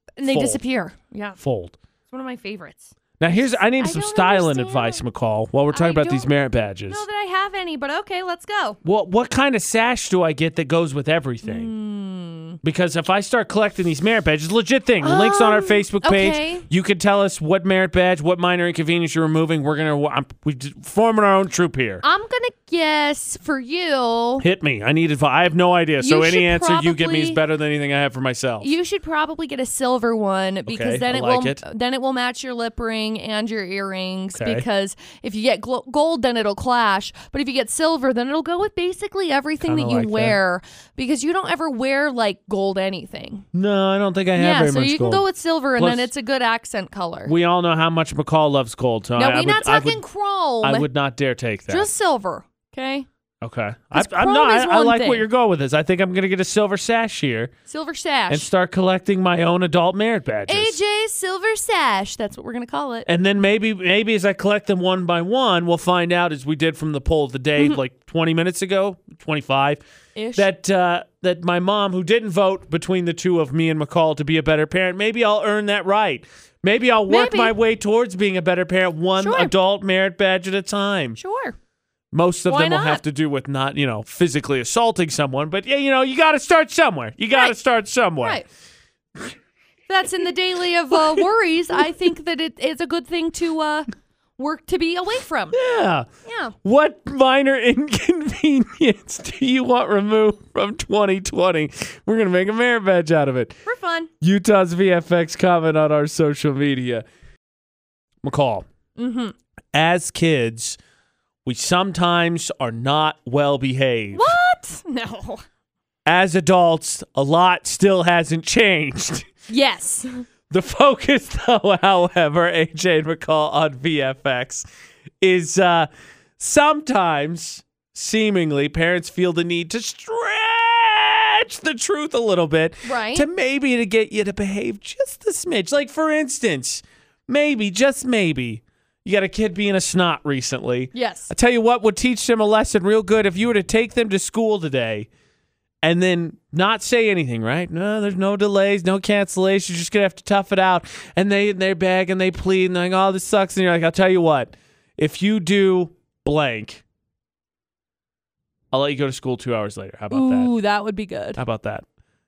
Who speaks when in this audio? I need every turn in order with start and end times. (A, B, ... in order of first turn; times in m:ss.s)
0:00.2-0:01.4 A
0:00.2-0:00.6 B
0:01.4-0:01.8 B
0:02.1-0:05.0 A
0:03.2-0:07.0 B
0:05.7-0:06.3 A
0:06.9-0:08.8 A
0:08.8-0:11.7 B
0:11.4-0:12.6 A
0:12.6-0:22.0 B
0:15.0-0:16.7 A
0:22.0-0:24.4 A
0:24.4-0:28.7 B
0:26.0-0:27.4 A
0:28.6-0:43.5 A
0:30.7-0:31.6 B
0:34.3-0:34.6 B
0:39.6-0:40.4 B
0:43.5-0:45.2 B
0:44.4-0:47.3 A
0:45.8-0:46.1 B
0:47.3-0:50.0 B
0:49.2-0:50.9 A
0:50.6-0:51.9 B
0:51.7-0:53.1 A
0:53.4-0:57.5 B
0:53.9-0:55.2 A
0:57.7-0:58.5 A
0:58.3-1:00.8 B
1:00.5-1:03.1 A
1:03.1-1:09.8 B
1:10.2-1:10.5 A
1:10.4-1:21.2 B
1:17.1-1:17.5 A
1:19.2-1:19.5 A
1:21.2-1:21.6 A
1:22.1-1:28.4 B
1:22.5-1:23.0 A
1:29.9-1:35.6 A
1:35.5-1:36.1 B
1:36.3-1:36.5 A
1:36.6-1:43.6 B
1:43.7-1:44.1 A
1:44.2-1:47.0 B
1:48.2-1:48.7 B
1:49.0-1:49.3 A
1:49.7-1:50.8 B
1:51.4-1:54.3 B
1:54.1-1:55.4 A
1:56.1-1:59.3 B
1:59.5-2:00.2 A
2:00.5-2:04.6 B
2:05.2-2:25.1 B
2:12.8-2:13.3 A
2:20.9-2:21.3 A
2:25.8-2:36.8 B
2:38.7-2:40.5 B
2:40.1-2:41.4 A
2:41.4-2:41.8 B